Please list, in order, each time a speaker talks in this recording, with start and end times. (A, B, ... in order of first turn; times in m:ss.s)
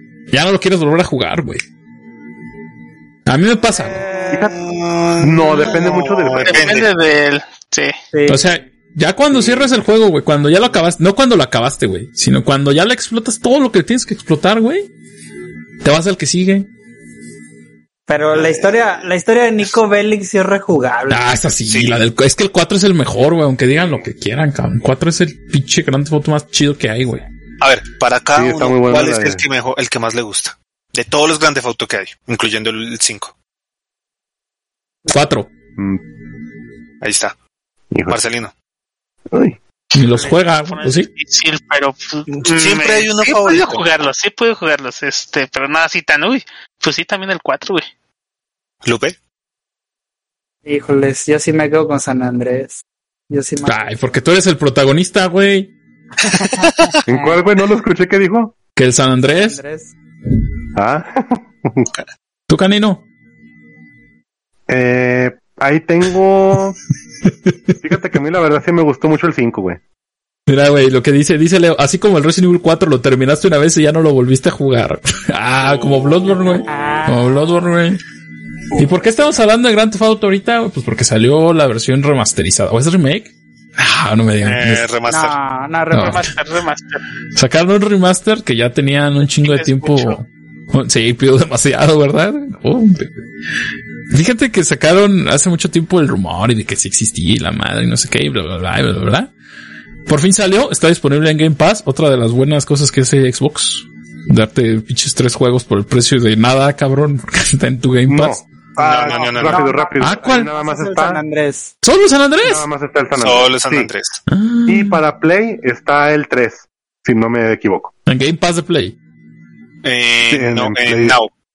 0:00.3-0:01.6 A
0:03.3-0:04.0 A
0:03.8-0:04.5 B
0:04.3-0:04.6 C
0:04.3-0:06.9 D
0:05.2-0:06.8 C
0:06.4-0:08.0 E
0:08.1-0:08.6 B
0:08.3-0:14.9 A
0:09.3-0:09.6 C
0:15.8-0:16.7 A
0:18.1-0:21.2 B
0:18.3-0:19.1 D
0:21.1-0:27.2 A
0:21.7-0:22.0 D
0:27.6-0:33.3 D
0:28.4-0:29.4 C
0:35.1-0:35.5 A
0:35.8-0:36.0 C
0:37.0-0:37.4 D
0:37.9-0:38.2 C
0:38.1-0:38.5 D
0:39.3-0:39.6 C
0:39.9-0:41.1 A
0:40.0-0:47.9 E
0:42.3-0:43.8 D
0:48.8-0:49.2 D
0:50.6-0:54.0 B
0:53.7-0:55.7 A
0:56.3-0:57.4 B
0:56.5-0:56.9 D
0:57.1-0:58.6 C
0:58.8-0:59.6 A
0:59.2-0:59.9 B
1:00.8-1:01.9 C
1:02.5-1:03.0 A
1:04.7-1:06.8 C
1:07.3-1:07.8 A
1:07.8-1:09.8 C
1:10.5-1:18.0 A
1:15.6-1:17.0 D
1:16.7-1:17.7 B
1:18.8-1:19.3 D
1:18.8-1:24.9 A
1:24.4-1:25.4 D
1:25.1-1:26.3 B
1:25.9-1:26.4 A
1:26.0-1:27.0 E
1:27.4-1:33.2 A
1:29.4-1:30.2 E
1:34.1-1:39.3 A
1:40.1-1:48.4 A
1:48.1-1:48.4 C
1:48.8-1:51.7 B
1:48.8-1:49.7 D
1:49.1-1:51.2 C
1:50.0-1:50.5 A
1:51.8-1:52.7 A
1:52.4-1:53.9 C
1:53.2-1:54.2 D
1:54.3-1:55.0 A
1:54.7-1:57.9 C
1:58.1-1:59.0 A
1:59.8-2:01.3 D
2:00.3-2:01.2 C